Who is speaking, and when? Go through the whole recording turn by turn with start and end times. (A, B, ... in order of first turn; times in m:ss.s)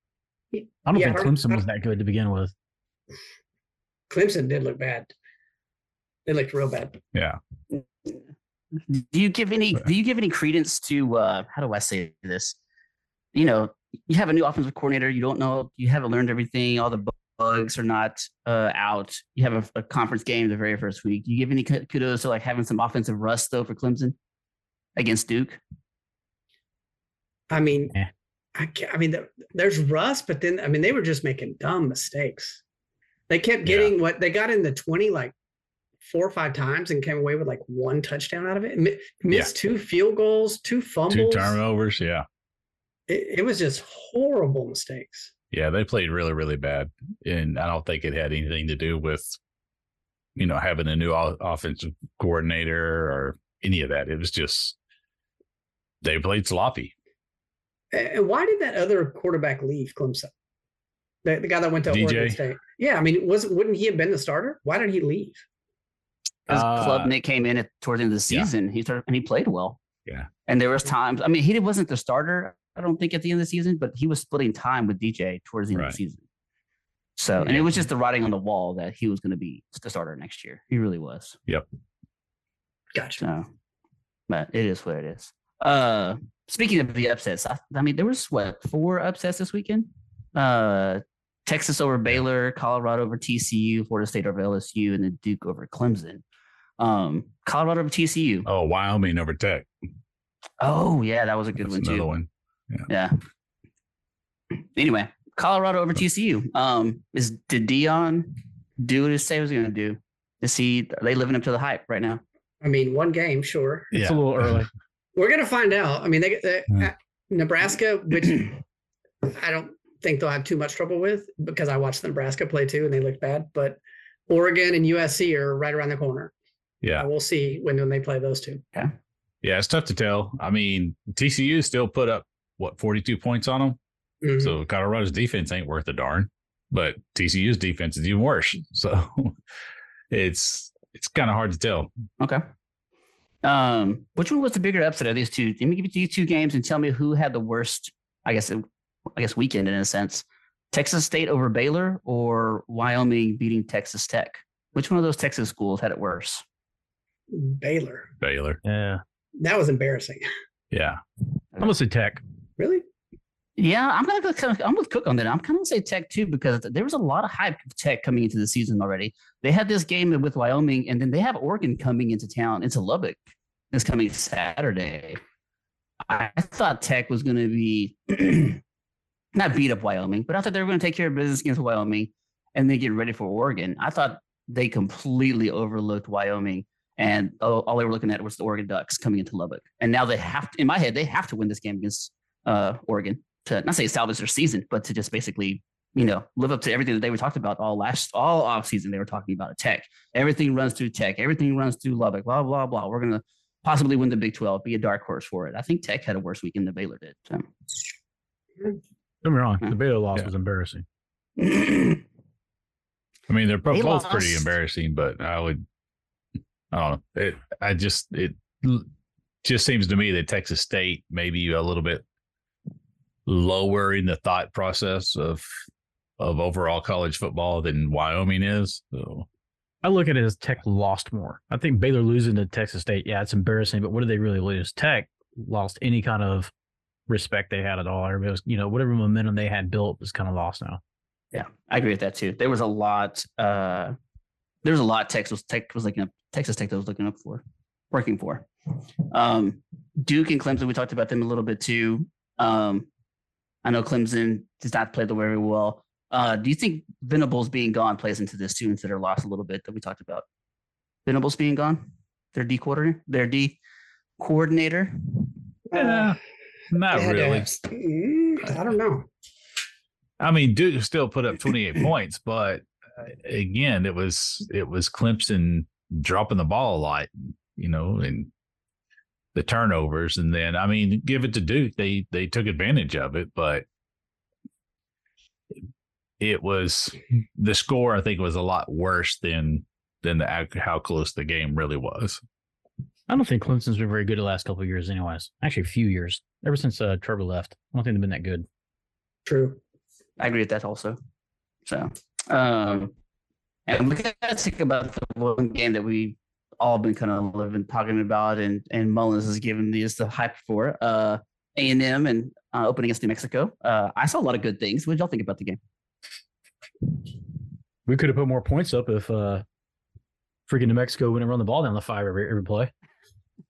0:00.5-0:01.6 A
0:00.9-0:02.5 B
0:04.1-0:05.1 A
0:06.3-0:07.0 A
0:07.7-0:08.2 C
0:08.9-0:12.6 C
0:13.3-0:24.2 C
0:25.0-0:25.6 C
0:27.5-0:28.0 A
0:28.6-0:32.6 A
0:33.3-0:35.3 A
0:33.6-0:33.9 D
0:36.0-0:41.6 A
0:41.1-0:42.2 D
0:43.1-0:45.3 A
0:45.5-0:49.4 D
0:50.4-0:54.8 D
0:56.0-0:56.9 D
0:57.9-1:00.3 A
1:01.2-1:05.4 A
1:01.9-1:02.4 D
1:06.5-1:09.8 C
1:06.5-1:07.0 D
1:06.5-1:07.1 B
1:10.5-1:16.2 C
1:17.2-1:21.4 C
1:17.4-1:17.8 D
1:22.9-1:23.2 A
1:23.2-1:23.5 C
1:24.3-1:36.2 C
1:36.8-1:38.5 C
1:38.5-1:39.7 D
1:40.6-1:42.1 C
1:41.6-1:42.9 D
1:42.9-1:43.1 C
1:44.5-1:52.2 C
1:52.6-1:53.9 A
1:53.9-1:54.2 D
1:54.0-1:54.7 B
1:55.1-1:58.6 A
1:59.2-2:06.3 A
2:07.0-2:08.6 A
2:09.4-2:13.8 D
2:14.2-2:14.5 A
2:14.4-2:19.4 D
2:20.1-2:21.9 D
2:23.4-2:28.6 C
2:29.2-2:36.4 C
2:37.3-2:38.1 A
2:38.2-2:38.6 D
2:38.6-2:39.0 B
2:39.4-2:40.3 A
2:40.7-2:41.0 D
2:41.6-2:42.2 B
2:42.6-2:42.8 A
2:43.6-2:53.2 C
2:53.7-2:55.2 C
2:56.1-2:58.6 C
2:59.3-3:27.5 C
3:29.2-3:30.8 B
3:31.4-3:32.0 C
3:33.3-3:35.6 D
3:33.8-3:34.4 C
3:33.8-3:34.4 B
3:36.7-3:38.9 D
3:39.4-3:42.0 D
3:43.3-3:45.4 D
3:46.2-3:49.3 D
3:49.8-3:56.5 B
3:57.1-4:00.8 B
4:01.3-4:04.0 C
4:04.6-4:08.5 C
4:09.1-4:12.9 C
4:13.6-4:20.2 C
4:21.1-4:23.6 C
4:24.2-4:25.3 C
4:25.7-4:26.1 A
4:25.7-4:26.2 D
4:26.7-4:27.5 D
4:26.9-4:29.1 A
4:30.2-4:38.3 D
4:39.4-4:43.6 D
4:46.2-4:52.2 D
4:53.1-4:58.5 B
4:59.3-4:59.6 A
5:00.2-5:01.0 C
5:01.6-5:02.9 C
5:03.7-5:15.6 C
5:17.9-5:19.4 B
5:20.5-5:22.7 B